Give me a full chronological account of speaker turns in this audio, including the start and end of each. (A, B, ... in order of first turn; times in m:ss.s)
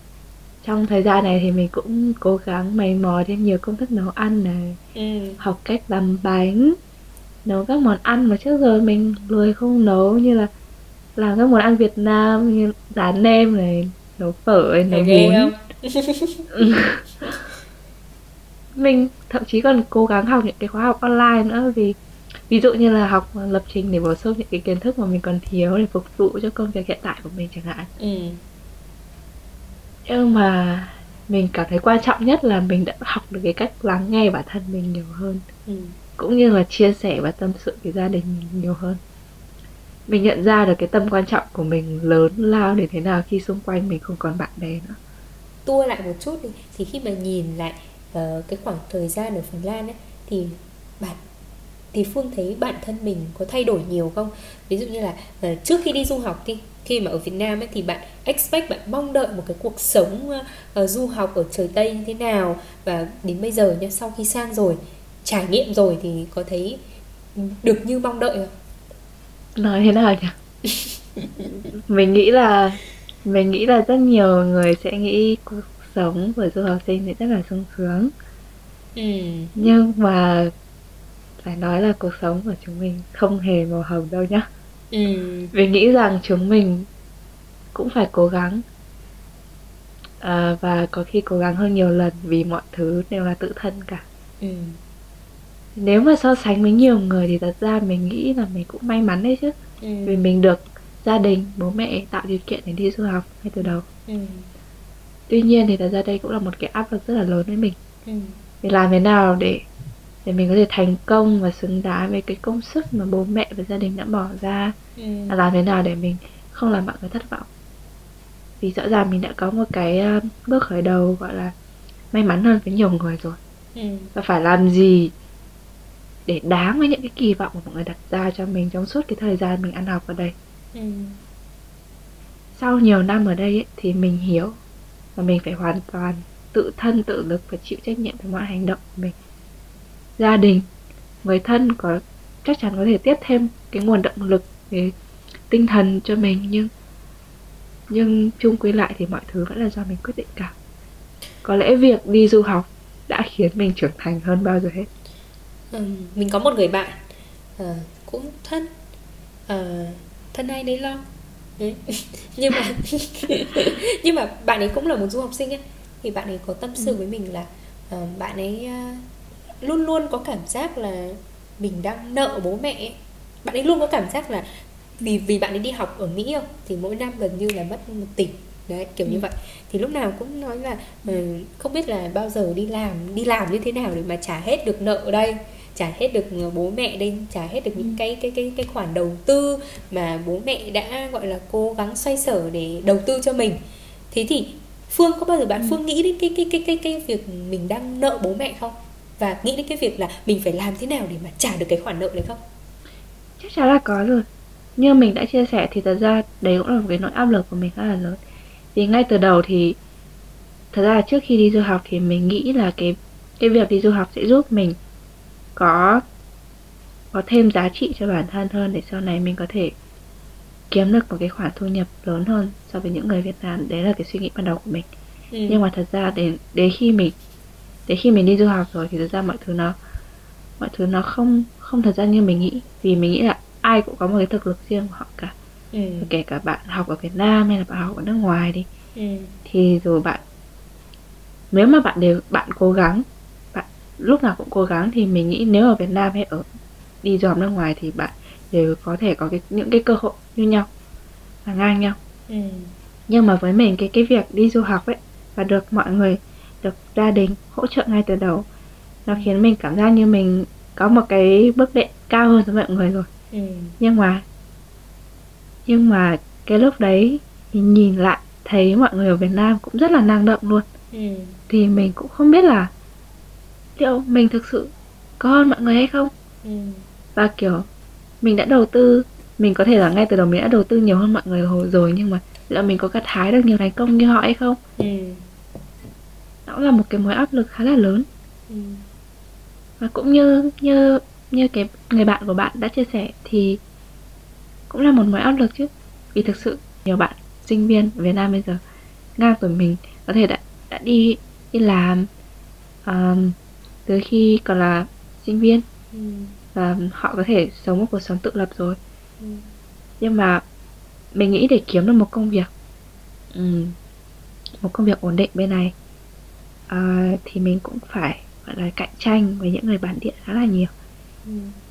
0:00.6-0:04.8 A
0:05.0-0:05.4 B
0:05.4-0:06.8 A
0:07.4-0:10.5 A
0:11.2-0:15.5 A
0:14.9-0:16.7 B
0:16.5-0:17.3 A
0:18.8-0:22.0 A
0:22.5-0:27.9 A
0:28.0-0:28.4 B
0:30.1-0:35.4 A
0:35.7-0:36.0 B
0:36.2-0:39.0 A
0:40.1-0:45.0 A
0:45.6-0:51.2 B
0:51.9-1:06.8 B
1:07.4-1:08.5 B
1:09.6-1:10.3 A
1:10.7-1:11.5 B
1:11.9-1:18.1 A
1:19.0-1:19.7 B
1:19.6-1:20.5 A
1:21.4-1:24.5 A
1:24.9-1:25.5 B
1:25.5-1:26.9 A
1:27.7-1:28.6 A
1:30.2-1:34.0 A
1:34.4-1:34.8 B
1:35.8-1:43.8 A
1:39.8-1:40.2 B
1:43.6-1:44.5 B
1:45.3-1:47.8 A
1:48.0-1:48.4 B
1:48.6-1:49.6 A
1:50.2-1:54.8 A
1:55.0-1:55.4 B
1:55.3-1:57.5 A
1:58.6-2:01.5 A
2:02.1-2:03.4 A
2:03.8-2:04.1 B
2:04.2-2:05.1 A
2:06.3-2:10.4 A
2:10.7-2:11.2 B
2:12.6-2:14.6 A
2:15.2-2:19.2 A
2:20.2-2:20.7 A
2:21.2-2:24.9 A
2:25.5-2:26.7 A
2:27.9-2:30.5 A
2:31.4-2:34.9 A
2:35.7-2:37.0 B
2:37.6-2:38.7 B
2:39.5-2:41.0 B
2:41.6-2:49.1 B
2:49.6-2:54.5 B
2:55.0-3:13.6 B
3:14.1-3:22.4 B
3:23.4-3:24.2 A
3:24.8-3:28.2 A
3:28.8-3:29.8 A
3:30.7-3:34.8 A
3:35.6-3:36.0 A
3:37.1-3:39.7 A
3:40.7-3:44.9 A
3:45.3-3:45.6 B
3:45.5-3:47.2 A
3:47.9-3:49.8 A
3:50.6-3:55.4 A
3:55.7-3:56.1 B
3:56.0-3:58.7 A
3:59.0-3:59.3 B
3:59.5-4:00.2 A
4:01.5-4:06.5 A
4:07.0-4:10.7 A
4:11.4-4:12.0 A
4:12.3-4:12.7 B
4:13.1-4:18.5 A
4:19.1-4:23.1 A
4:23.3-4:23.8 B
4:23.8-4:24.2 A
4:25.7-4:30.7 A
4:30.9-4:31.4 B
4:31.5-4:32.7 A
4:33.8-4:36.1 A
4:36.4-4:36.8 B
4:37.2-4:37.7 A
4:38.2-4:44.6 A
4:44.8-4:45.2 B
4:46.5-4:48.1 A
4:48.5-4:48.8 B
4:49.8-4:53.6 A
4:54.7-4:58.6 A
4:59.2-5:02.1 A
5:02.8-5:05.6 A
5:05.9-5:06.4 B
5:06.6-5:08.8 A
5:09.2-5:09.5 B
5:10.0-5:10.4 A
5:11.1-5:12.5 A
5:13.3-5:13.8 A
5:14.6-5:15.7 A
5:16.7-5:20.7 A
5:21.2-5:21.6 B